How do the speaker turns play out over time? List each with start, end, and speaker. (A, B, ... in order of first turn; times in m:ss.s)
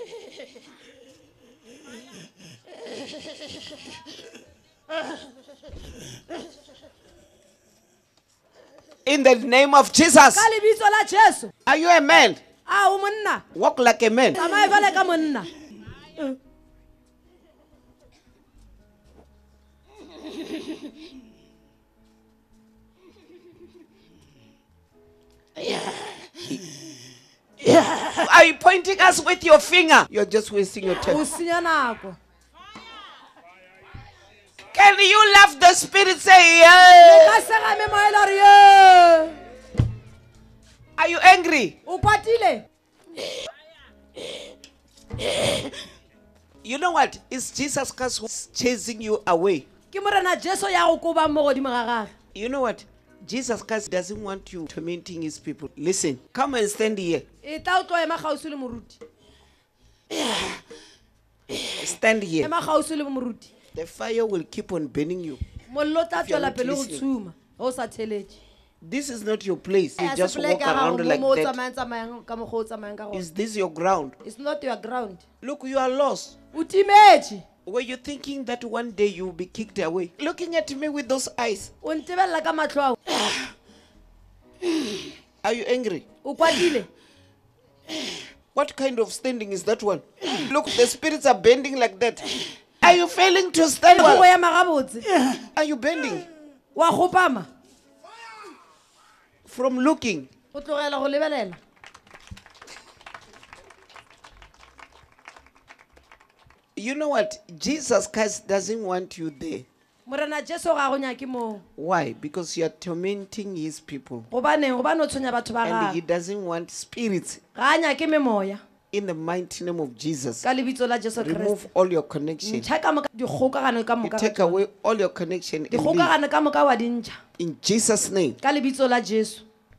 0:09.0-0:10.5 A
0:10.3-0:11.5 B
0:11.7-0:12.4 A
0:12.7-0:13.4 B
0:13.5-0:14.4 A
0:14.3-0:15.5 B
0:27.9-0:31.2 A
0:31.0-0:32.2 B
0:34.7-0:37.4 A
0:36.9-0:39.4 B
0:41.0-0:41.8 A
0:41.9-0:42.6 B
0:45.3-0:45.6 A
0:46.6-0:49.6 A
0:49.9-0:52.1 B
0:52.3-0:57.2 A
0:57.4-0:59.0 B
1:01.6-1:02.5 A
1:02.4-1:03.5 B
1:03.7-1:05.4 A
1:05.7-1:08.4 B
1:06.1-1:07.1 A
1:08.8-1:11.6 A
1:10.0-1:13.2 B
1:13.1-1:14.2 A
1:14.2-1:15.2 B
1:15.4-1:16.4 A
1:16.5-1:17.4 B
1:17.6-1:21.7 A
1:21.8-1:23.0 B
1:25.4-1:26.0 A
1:26.2-1:26.9 B
1:28.5-1:34.3 A
1:33.9-1:35.1 B
1:35.5-1:36.3 A
1:36.8-1:37.5 B
1:39.4-1:40.3 A
1:40.5-1:41.6 B
1:46.8-1:49.6 A
1:50.1-1:51.6 B
1:51.8-1:54.3 A
1:54.3-1:56.0 B
1:55.6-1:57.4 A
1:57.6-1:58.6 B
1:58.9-2:00.4 A
2:00.4-2:01.6 B
2:01.2-2:02.7 A
2:02.4-2:04.6 B
2:04.0-2:06.1 A
2:05.7-2:07.2 B
2:07.4-2:08.4 A
2:08.4-2:09.4 B